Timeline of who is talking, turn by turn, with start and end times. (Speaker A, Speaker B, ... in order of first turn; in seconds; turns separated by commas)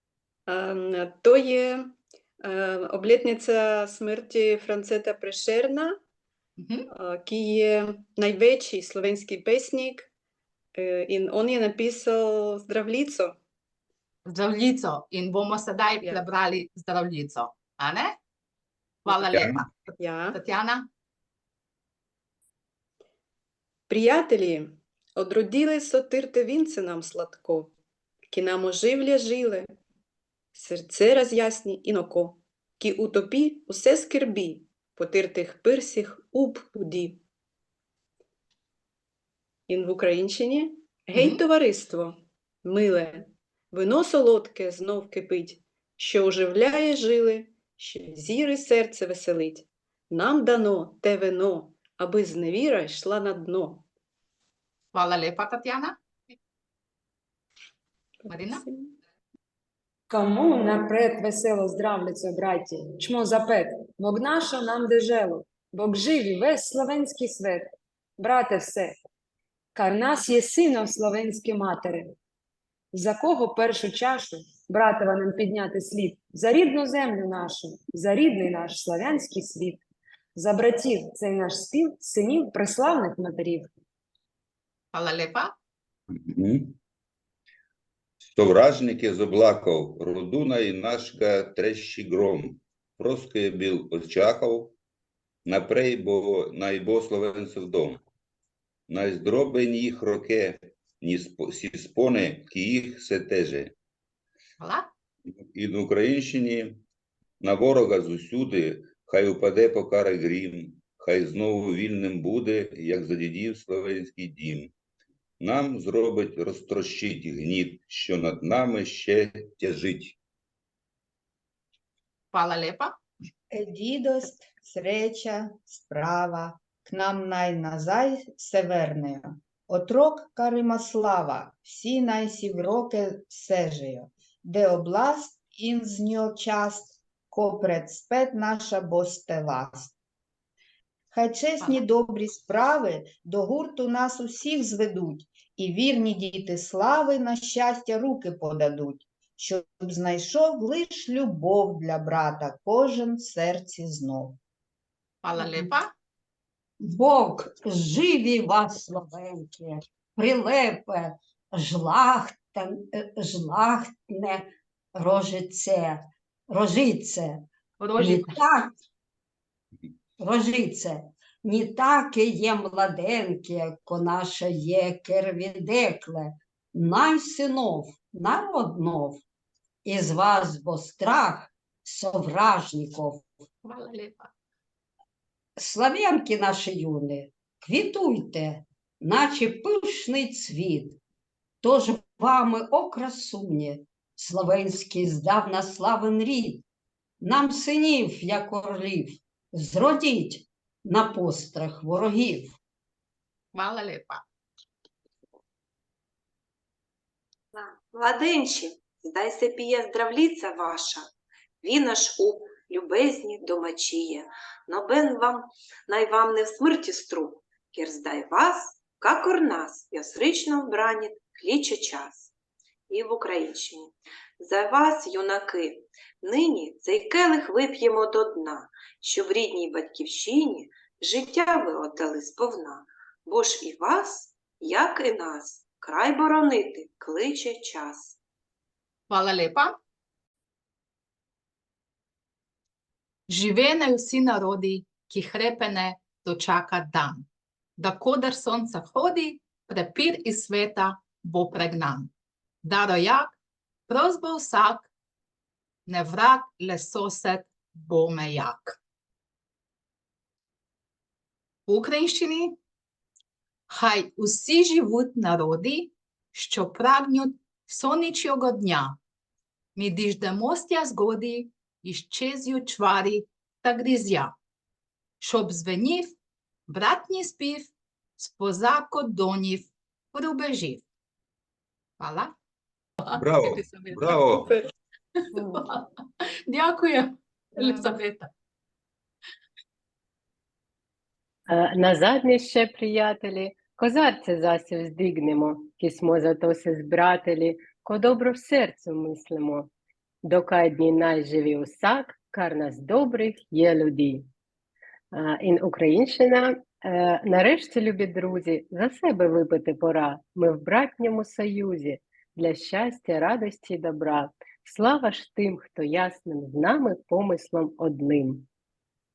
Speaker A: 0.5-6.0, Speaker B: 6.6-6.8, Speaker A: 6.9-10.1, Speaker A: 10.7-13.4, Speaker B: 14.2-18.1, Speaker B: 19.1-20.9, Speaker C: 19.1-19.6, Speaker A: 20.0-20.4, Speaker A: 23.9-27.7, Speaker A: 28.3-29.7, Speaker A: 30.5-37.2, Speaker A: 39.7-53.8, Speaker B: 41.1-41.4, Speaker B: 54.9-56.0, Speaker A: 58.2-58.9, Speaker B: 58.3-58.6, Speaker D: 60.1-69.0, Speaker D: 69.7-72.1, Speaker D: 72.9-79.8, Speaker D: 80.3-83.7, Speaker B: 84.9-85.5, Speaker C: 86.2-86.7, Speaker C: 88.3-94.7, Speaker C: 95.5-98.0, Speaker C: 98.9-103.7, Speaker B: 104.6-104.9, Speaker C: 105.3-106.8, Speaker C: 107.4-114.7, Speaker C: 115.4-120.2, Speaker B: 122.3-122.9, Speaker E: 123.5-139.9, Speaker E: 141.1-154.4, Speaker B: 155.2-155.9, Speaker F: 156.8-167.4, Speaker B: 167.8-168.3, Speaker F: 168.0-168.7, Speaker F: 170.2-179.2, Speaker F: 179.8-183.2, Speaker B: 183.6-184.3, Speaker F: 185.6-191.0, Speaker F: 191.6-196.6, Speaker F: 197.2-202.6, Speaker B: 203.5-204.2, Speaker G: 207.5-211.1, Speaker G: 211.6-222.3, Speaker G: 222.9-238.2, Speaker B: 239.1-239.7, Speaker B: 243.3-252.1, Speaker B: 252.6-254.9, Speaker B: 255.8-258.8, Speaker B: 261.7-262.6, Speaker B: 263.7-269.0, Speaker B: 269.8-274.3, Speaker B: 275.2-276.1, Speaker B: 276.7-280.8, Speaker B: 282.0-282.3, Speaker B: 283.0-284.2, Speaker C: 283.1-284.5, Speaker B: 285.3-285.9, Speaker A: 285.3-285.6, Speaker B: 286.5-288.3, Speaker A: 287.6-287.9, Speaker H: 291.5-299.7, Speaker H: 300.2-304.3, Speaker H: 305.1-318.5